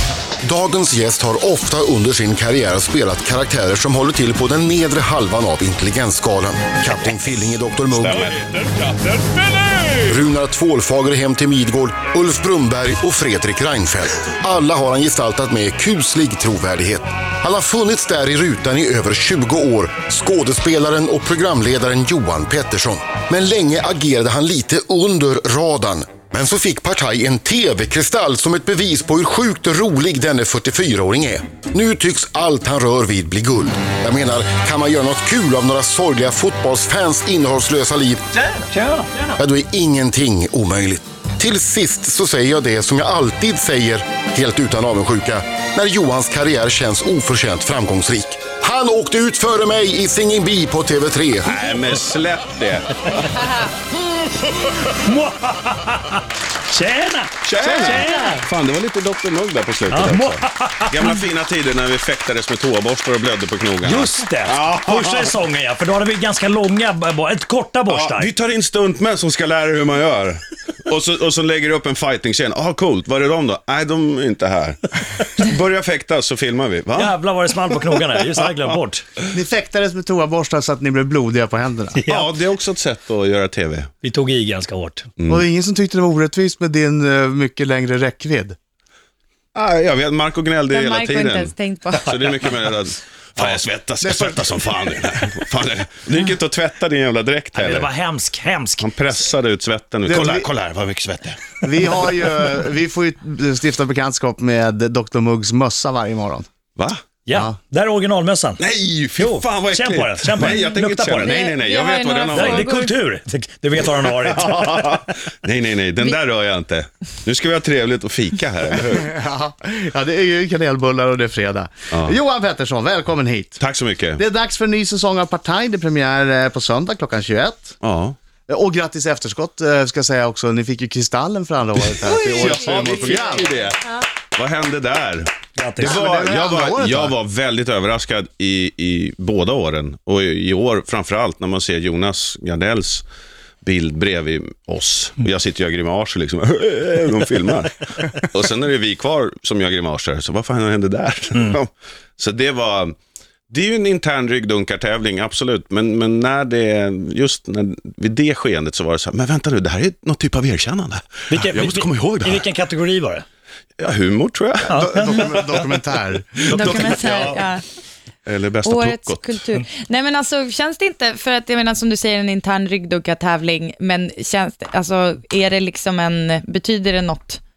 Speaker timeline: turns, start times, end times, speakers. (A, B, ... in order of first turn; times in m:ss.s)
0:00.4-0:08.4 A
0:07.9-0:10.2 B
0:10.1-0:38.2 A
0:38.4-0:39.4 C
0:39.4-0:51.5 A
0:51.4-0:53.5 B
0:54.8-0:58.5 C
0:57.4-1:05.4 B
0:57.6-0:58.0 D
0:59.9-1:01.1 C
1:03.8-1:08.3 C
1:07.9-1:17.2 B
1:16.9-1:19.0 C
1:19.3-1:22.0 D
1:21.9-1:22.3 C
1:22.1-1:23.9 B
1:24.0-1:25.1 C
1:25.2-1:25.4 B
1:25.2-1:28.6 D
1:29.5-1:37.9 B
1:30.7-1:32.1 E
1:32.1-1:32.5 C
1:33.4-1:33.6 C
1:34.0-1:34.3 D
1:37.5-1:38.9 C
1:38.8-1:41.9 B
1:40.0-1:40.5 D
1:41.6-1:46.5 D
1:46.8-1:47.0 B
1:47.2-1:48.6 C
1:48.6-1:52.7 B
1:49.1-1:51.5 C
1:51.2-1:52.9 E
1:52.3-1:54.9 C
1:54.2-1:59.1 B
1:58.8-2:03.6 D
2:01.9-2:02.2 B
2:03.6-2:04.2 B
2:04.2-2:07.8 D
2:07.8-2:08.2 B
2:08.5-2:13.6 D
2:11.8-2:23.0 B
2:12.4-2:13.9 E
2:15.5-2:16.0 C
2:15.8-2:17.2 D
2:23.6-2:32.9 B
2:33.5-2:42.4 B
2:41.3-2:43.2 C
2:43.8-2:45.7 B
2:44.7-2:47.3 D
2:44.7-2:45.0 C
2:46.5-2:47.2 C
2:46.5-2:47.6 E
2:46.5-2:47.4 B
2:48.2-2:49.4 B
2:48.6-2:57.4 E